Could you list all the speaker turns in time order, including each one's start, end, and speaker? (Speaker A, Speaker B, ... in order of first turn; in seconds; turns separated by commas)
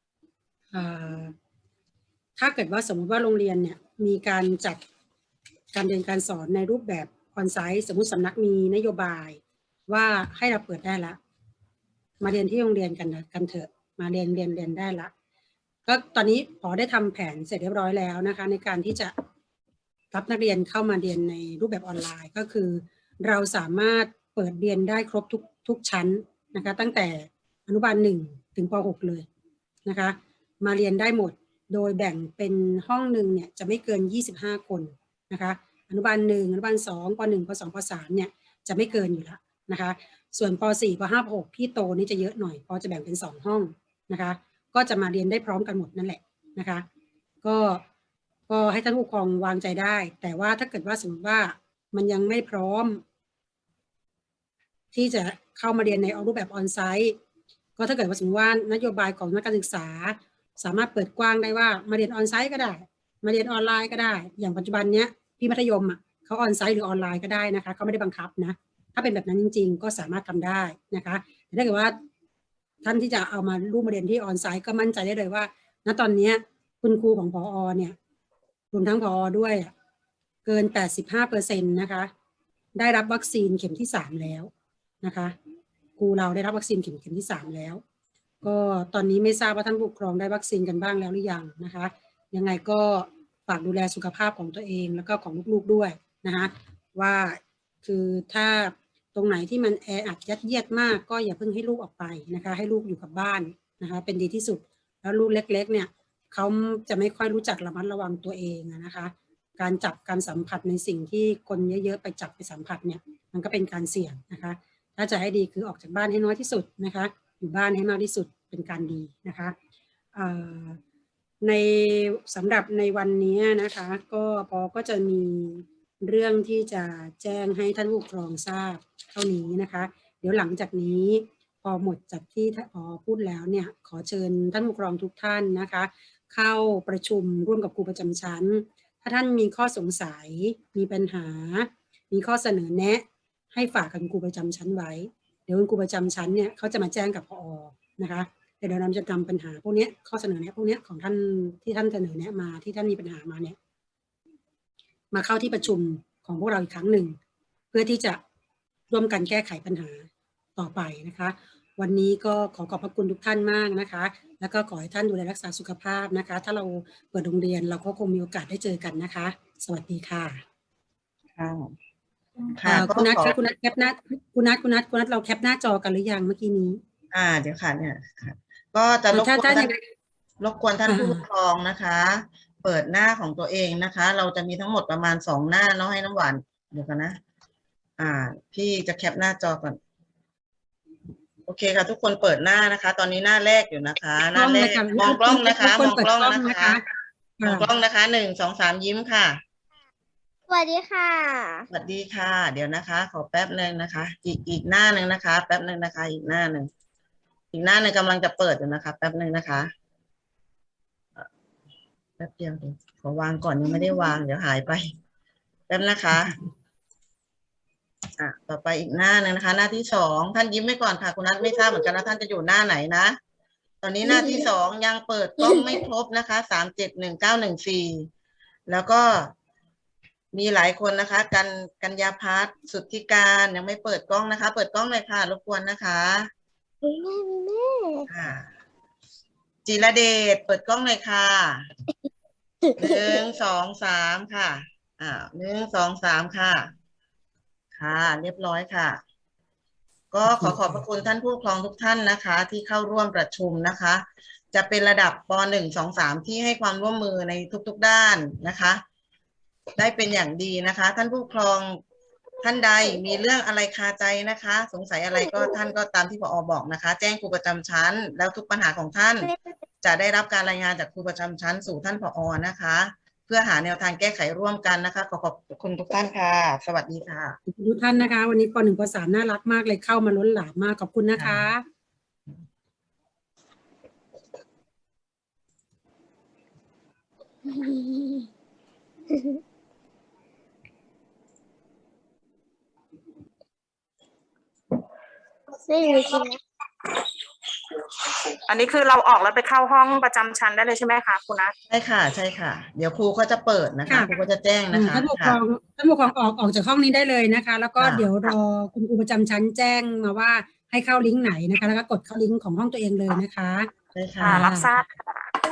Speaker A: 0.7-1.3, Speaker A: 2.4-4.8, Speaker A: 5.7-11.2, Speaker A: 12.2-15.1, Speaker A: 15.8-19.1, Speaker A: 20.1-29.2, Speaker A: 29.9-46.8, Speaker A: 47.4-47.8, Speaker A: 48.5-53.0, Speaker A: 54.9-57.2, Speaker A: 57.8-71.9, Speaker A: 72.8-77.9, Speaker A: 78.7-79.7, Speaker A: 80.5-82.1, Speaker A: 82.8-84.5, Speaker A: 85.0-85.3, Speaker A: 86.0-87.8, Speaker A: 88.4-119.5, Speaker A: 120.1-120.8, Speaker A: 121.4-153.6, Speaker A: 155.1-157.2, Speaker A: 157.7-158.2, Speaker A: 158.9-170.4, Speaker B: 171.3-171.7, Speaker B: 172.5-173.3, Speaker A: 172.6-176.8, Speaker B: 177.1-179.7, Speaker A: 179.1-179.8, Speaker B: 180.4-187.2, Speaker A: 180.8-181.2, Speaker B: 188.0-189.8, Speaker B: 191.5-196.8, Speaker A: 194.3-196.8, Speaker A: 197.4-197.7, Speaker B: 197.4-199.4, Speaker C: 200.5-201.7, Speaker B: 201.7-206.7, Speaker B: 207.5-209.7, Speaker B: 212.2-214.9, Speaker B: 215.7-216.4, Speaker B: 218.2-223.2, Speaker B: 223.8-228.1, Speaker B: 228.7-229.3, Speaker B: 230.3-236.3, Speaker C: 236.8-238.1, Speaker B: 238.1-238.5, Speaker B: 239.6-241.6, Speaker C: 242.7-243.0, Speaker B: 242.8-246.7, Speaker B: 247.7-249.0, Speaker B: 250.1-258.8, Speaker A: 250.3-250.8, Speaker B: 259.8-261.8, Speaker B: 262.4-277.4, Speaker A: 277.5-281.6, Speaker B: 281.2-281.4, Speaker C: 287.5-288.2, Speaker C: 289.1-289.4, Speaker C: 295.6-296.4, Speaker D: 298.5-301.5, Speaker B: 301.7-305.4, Speaker A: 303.9-304.1, Speaker A: 304.7-314.7, Speaker B: 307.8-308.1, Speaker B: 313.9-314.4, Speaker D: 314.3-315.3